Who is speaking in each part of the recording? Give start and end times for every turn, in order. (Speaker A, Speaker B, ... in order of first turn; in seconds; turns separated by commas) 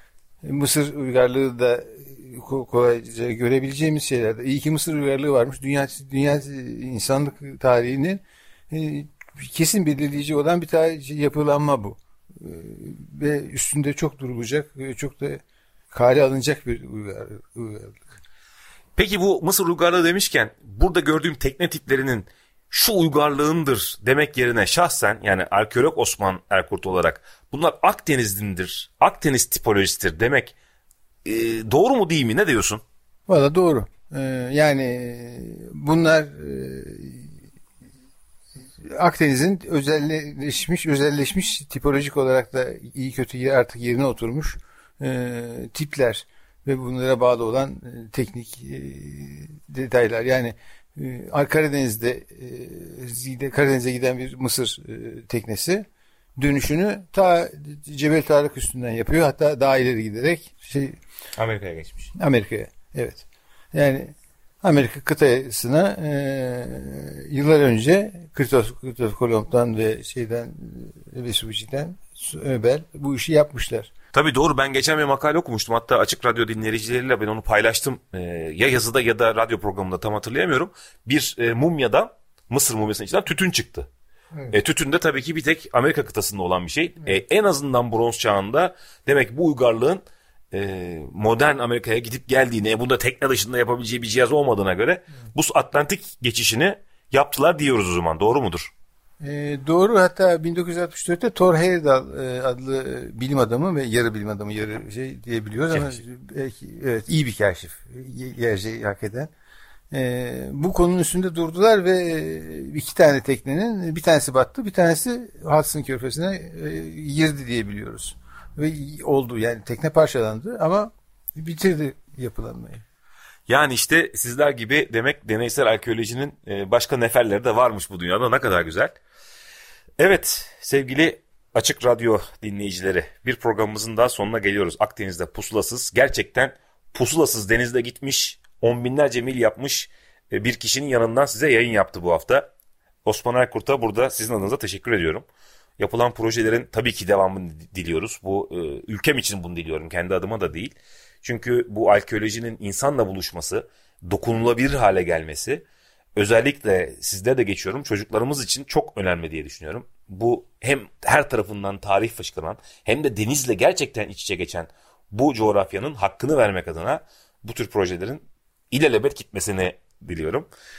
Speaker A: 0.4-18.1, Speaker B: 18.9-30.5, Speaker B: 31.2-32.8, Speaker A: 33.3-37.3, Speaker A: 38.9-55.8, Speaker A: 56.4-61.0, Speaker B: 61.4-62.1, Speaker A: 62.1-73.9, Speaker B: 74.1-83.9, Speaker B: 84.5-98.7, Speaker A: 99.2-109.3, Speaker B: 105.7-106.0, Speaker A: 109.9-122.8, Speaker B: 123.5-128.9, Speaker B: 130.0-142.5, Speaker B: 143.1-145.2, Speaker B: 145.8-155.6, Speaker B: 156.2-170.5